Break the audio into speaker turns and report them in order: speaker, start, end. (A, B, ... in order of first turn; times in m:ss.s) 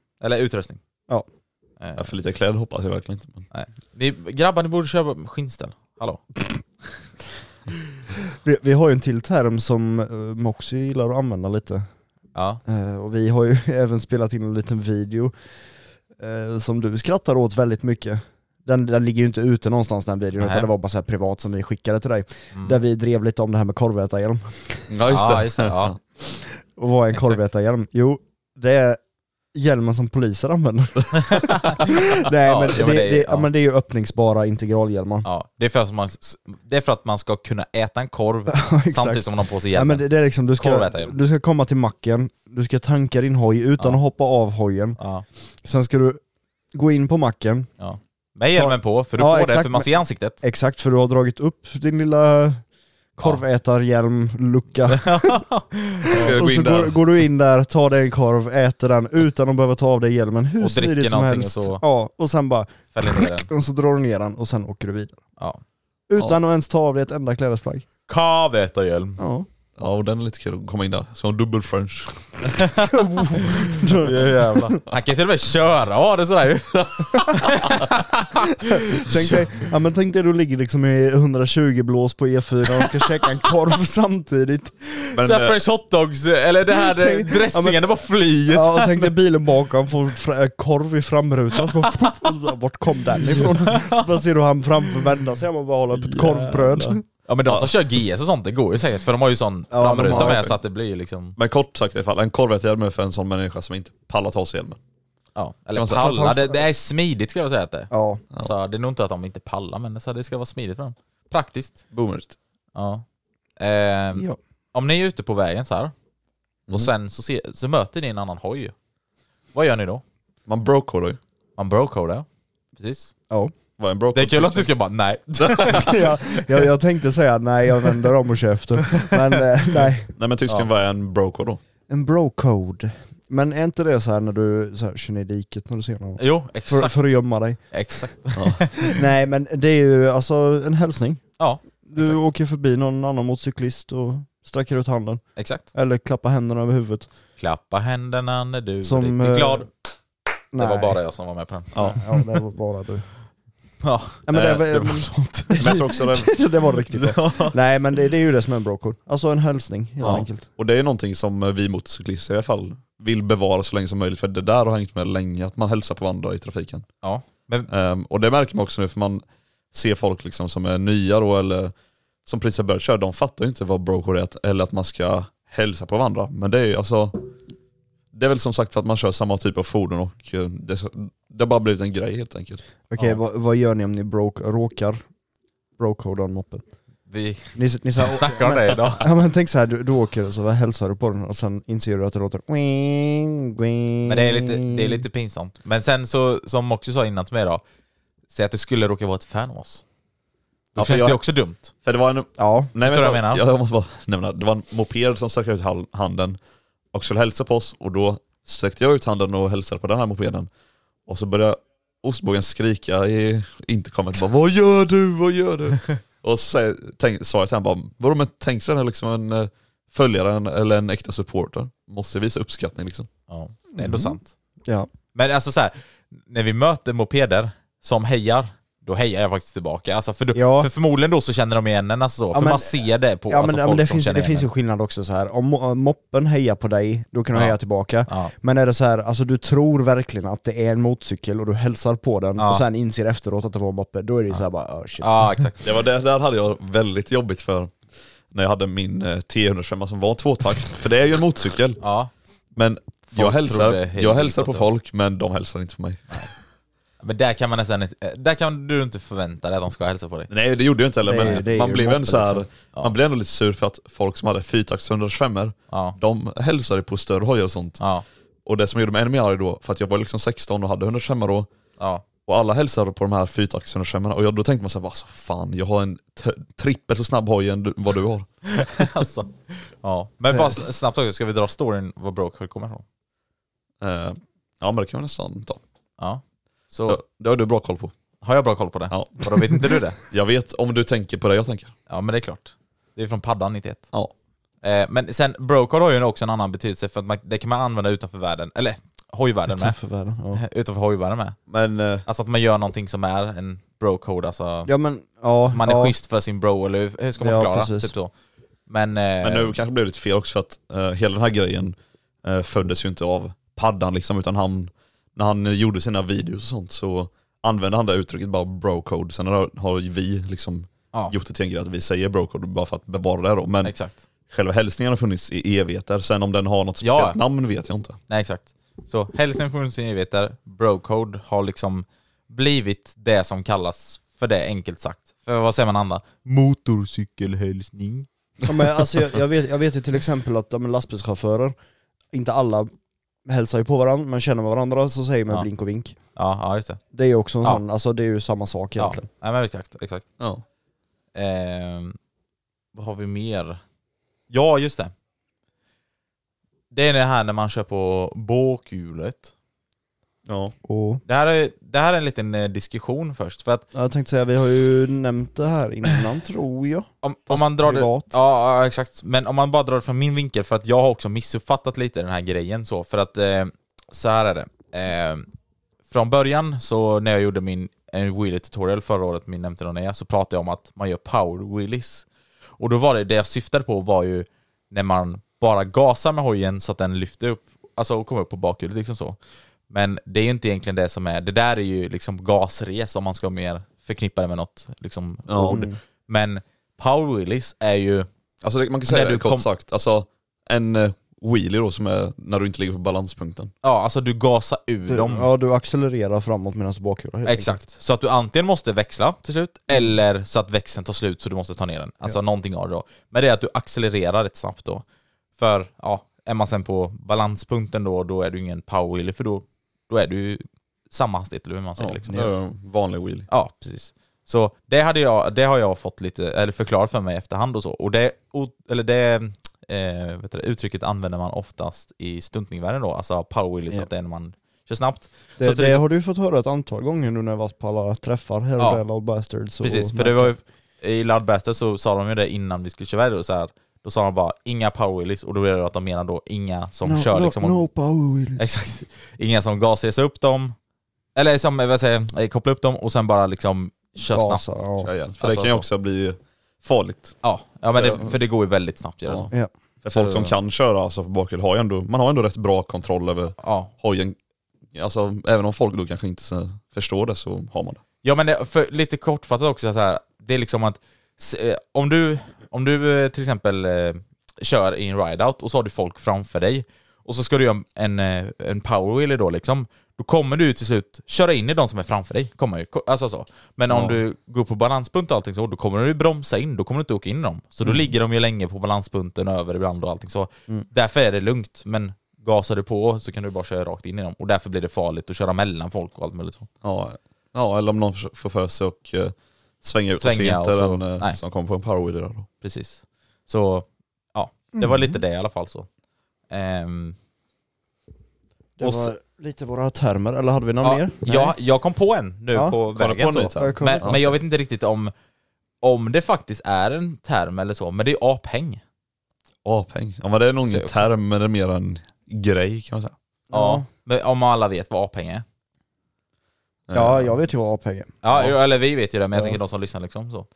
0:00.2-0:00.8 A
0:01.8-0:02.1 A
0:02.0-0:03.5 B
0:03.5-0:06.2 A
0:08.3-0:11.9 C
0:12.4-0:12.6 A
0:12.6-0:15.4 C
0:16.2-0:24.9 C
0:20.4-0:20.7 A
0:24.9-0:26.0 B
0:25.1-0:26.0 A
0:26.6-0:29.0 C
0:27.1-0:27.4 A
0:29.5-0:35.3 C
0:31.2-0:31.9 A
0:32.4-0:33.5 A
0:35.2-0:41.2 A
0:38.5-0:45.0 C
0:45.0-0:45.2 A
0:45.6-0:46.2 C
0:46.7-0:47.7 C
0:47.8-0:50.4 A
0:48.5-0:52.6 C
0:53.2-0:55.4 C
0:54.9-0:56.3 A
0:56.1-0:57.0 B
0:56.2-1:05.2 C
1:00.6-1:01.8 A
1:02.9-1:03.5 A
1:06.1-1:07.9 C
1:08.1-1:09.2 A
1:09.2-1:09.5 C
1:09.8-1:12.6 B
1:12.9-1:14.8 C
1:14.0-1:19.3 A
1:18.9-1:24.8 C
1:25.1-1:25.6 B
1:25.2-1:29.1 A
1:26.7-1:27.9 C
1:28.5-1:37.0 C
1:36.0-1:36.9 B
1:37.3-1:41.4 A
1:37.5-1:37.7 B
1:39.7-1:40.5 C
1:39.9-1:40.6 B
1:41.4-1:44.8 B
1:45.4-1:51.9 A
1:45.8-1:46.1 B
1:45.9-1:46.6 C
1:47.9-1:48.2 C
1:51.9-1:52.4 B
1:52.8-1:53.0 A
1:53.6-1:55.9 A
1:56.8-1:58.7 A
1:59.5-2:00.0 A
2:00.5-2:01.2 B
2:01.6-2:03.1 A
2:03.8-2:04.7 B
2:04.1-2:05.9 A
2:05.4-2:06.0 B
2:05.7-2:10.1 C
2:10.2-2:11.6 B
2:11.9-2:17.6 C
2:16.2-2:18.8 A
2:18.4-2:18.7 B
2:18.9-2:27.1 C
2:21.4-2:22.2 A
2:25.4-2:25.6 A
2:27.4-2:29.7 A
2:28.8-2:29.7 C
2:30.5-2:31.0 C
2:30.6-2:32.2 A
2:31.8-2:32.0 B
2:32.0-2:33.1 C
2:33.8-2:35.7 A
2:34.3-2:40.5 C
2:34.4-2:34.7 B
2:35.6-2:37.5 B
2:40.0-2:46.9 B
2:47.0-2:47.7 A
2:47.7-2:51.7 B
2:52.3-2:57.2 B
2:58.1-3:02.6 B
3:02.9-3:05.0 C
3:05.8-3:06.6 C
3:07.1-3:09.1 A
3:07.6-3:15.0 C
3:14.1-3:17.6 A
3:18.3-3:19.8 A
3:20.8-3:21.2 B
3:20.8-3:21.7 A
3:21.8-3:26.4 B
3:22.4-3:22.7 C
3:22.8-3:23.4 A
3:26.9-3:30.5 B
3:31.1-3:43.1 B
3:43.3-3:44.3 A
3:43.7-3:44.9 C
3:45.1-3:54.5 A
3:50.3-3:50.7 C
3:52.3-4:05.5 C
3:57.3-3:58.3 A
4:02.4-4:02.6 A
4:05.0-4:05.6 A
4:05.6-4:07.8 B
4:08.3-4:11.8 B
4:11.8-4:12.1 A
4:12.6-4:16.3 B
4:13.1-4:14.7 A
4:17.0-4:20.3 A
4:20.3-4:27.8 B
4:21.0-4:22.5 C
4:25.7-4:26.0 A
4:27.8-4:28.0 A
4:28.5-4:31.5 B
4:31.8-4:32.0 A
4:32.2-4:38.3 B
4:38.5-4:42.8 A
4:43.8-4:45.6 B
4:46.0-4:47.0 A
4:46.9-4:47.9 B
4:48.2-4:50.0 A
4:48.9-4:49.3 B
4:50.0-4:51.7 B
4:51.9-4:53.9 A
4:54.6-4:59.8 A
4:59.5-5:00.4 C
5:00.3-5:01.4 A
5:01.5-5:02.1 B
5:02.1-5:04.7 A
5:04.7-5:06.0 C
5:05.5-5:08.1 A
5:07.2-5:07.9 C
5:08.7-5:09.6 A
5:09.2-5:23.8 B
5:23.6-5:24.0 A
5:24.3-5:28.0 B
5:26.8-5:27.2 A
5:28.1-5:38.1 A
5:38.4-5:41.6 C
5:42.1-5:42.7 C
5:43.2-5:46.0 C
5:46.2-5:46.8 A
5:46.9-5:49.1 C
5:48.8-5:50.0 A
5:51.2-5:52.0 A
5:52.7-5:53.6 A
5:54.3-5:54.9 A
5:56.7-5:59.3 A
6:00.3-6:00.5 B
6:00.6-6:01.0 C
6:01.1-6:03.6 A
6:03.7-6:08.2 C
6:07.0-6:15.3 A
6:15.9-6:22.1 A
6:22.6-6:29.2 A
6:29.7-6:38.1 A
6:35.3-6:35.6 B
6:35.4-6:35.8 C
6:38.4-6:43.5 B
6:38.9-6:39.5 A
6:43.6-6:45.3 A
6:44.9-6:47.6 C
6:47.3-6:54.8 A
6:55.4-7:02.2 A
7:01.8-7:03.3 B
7:03.3-7:15.8 A
7:15.4-7:20.3 C
7:19.6-7:27.6 A
7:26.8-7:28.4 C
7:28.4-7:30.6 A
7:31.2-7:34.4 A
7:34.0-7:34.9 C
7:34.8-7:37.2 B
7:35.2-7:35.6 A
7:37.2-7:39.3 A
7:37.7-7:38.1 B
7:39.8-7:44.2 B
7:39.9-7:40.4 A
7:43.4-7:43.7 A
7:44.7-7:47.8 B
7:48.0-8:16.5 A
8:16.6-8:22.3 B
8:20.0-8:21.2 A
8:22.4-8:25.7 A
8:24.5-8:25.0 C
8:26.3-8:27.0 A
8:28.6-8:31.4 C
8:28.6-8:28.9 A
8:30.6-8:34.9 A
8:32.8-8:34.1 B
8:33.4-8:34.0 C
8:35.6-8:38.6 A
8:39.4-8:42.9 B
8:40.5-8:40.9 A
8:43.3-8:43.7 C
8:43.3-8:45.2 A
8:46.7-8:47.1 B
8:46.7-8:48.0 C
8:48.0-8:50.3 A